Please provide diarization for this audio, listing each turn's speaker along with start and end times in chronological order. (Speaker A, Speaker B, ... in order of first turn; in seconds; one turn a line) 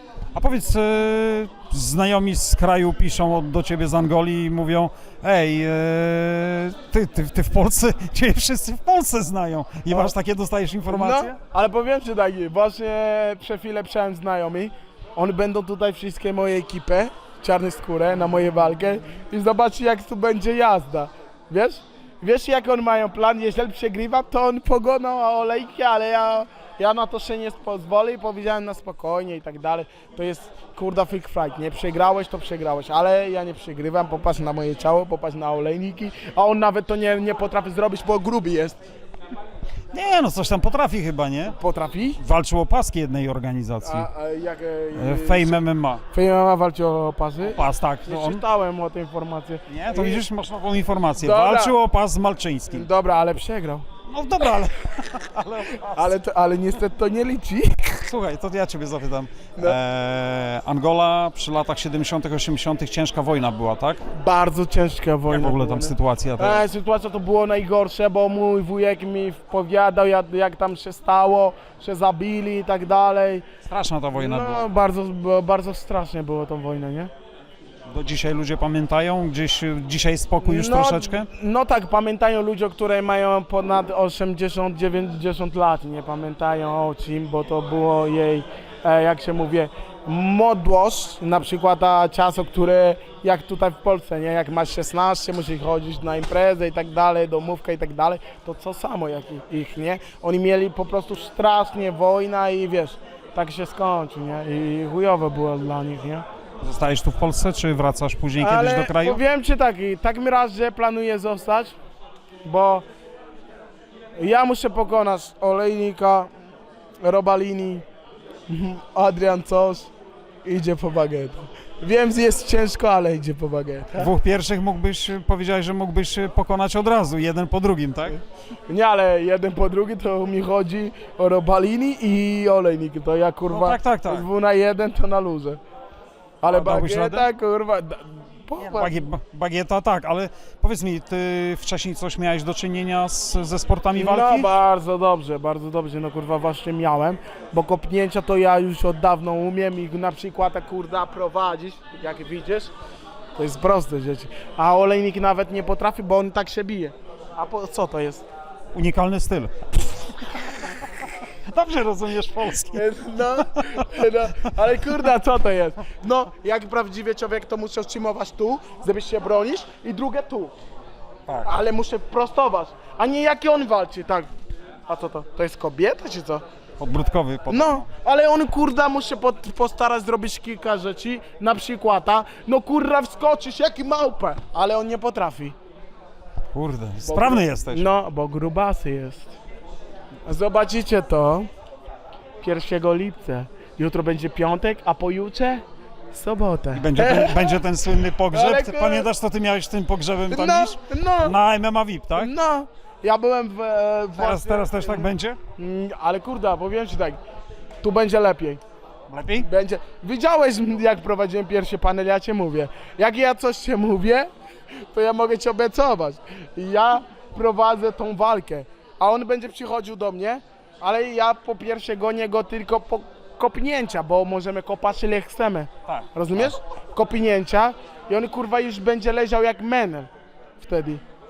Speaker A: 0.3-11.4
Speaker B: 10.9-38.8
Speaker A: 39.9-41.5
Speaker B: 41.5-42.2
Speaker A: 42.2-44.1
Speaker B: 43.8-50.2
Speaker A: 44.9-46.0
Speaker A: 47.4-48.4
Speaker A: 49.7-52.9
Speaker B: 51.2-51.8
Speaker B: 52.7-53.9
Speaker A: 54.1-56.1
Speaker B: 55.7-58.1
Speaker A: 58.0-64.0
Speaker B: 64.1-73.5
Speaker A: 65.3-66.6
Speaker A: 73.6-74.6
Speaker B: 74.1-77.1
Speaker A: 77.9-81.3
Speaker B: 80.4-106.2
Speaker A: 106.6-109.2
Speaker B: 108.4-111.7
Speaker B: 112.4-112.8
Speaker B: 114.2-116.3
Speaker B: 117.0-117.8
Speaker B: 118.5-119.9
Speaker B: 120.4-124.1
Speaker A: 123.9-128.2
Speaker B: 128.7-135.6
Speaker A: 133.5-134.2
Speaker B: 136.4-139.0
Speaker A: 136.4-137.3
Speaker A: 138.6-144.5
Speaker B: 143.9-152.7
Speaker B: 153.3-158.2
Speaker A: 158.7-164.1
Speaker B: 162.7-170.5
Speaker B: 171.4-174.3
Speaker B: 174.9-176.4
Speaker A: 176.8-177.8
Speaker B: 177.5-185.5
Speaker A: 186.5-187.8
Speaker B: 187.0-189.3
Speaker B: 190.2-191.5
Speaker B: 192.4-197.7
Speaker A: 196.7-202.3
Speaker B: 198.3-199.1
Speaker B: 200.3-201.4
Speaker B: 202.1-207.2
Speaker A: 204.2-205.4
Speaker B: 207.8-208.6
Speaker A: 209.1-209.5
Speaker B: 209.4-214.3
Speaker B: 214.8-231.0
Speaker A: 225.9-226.5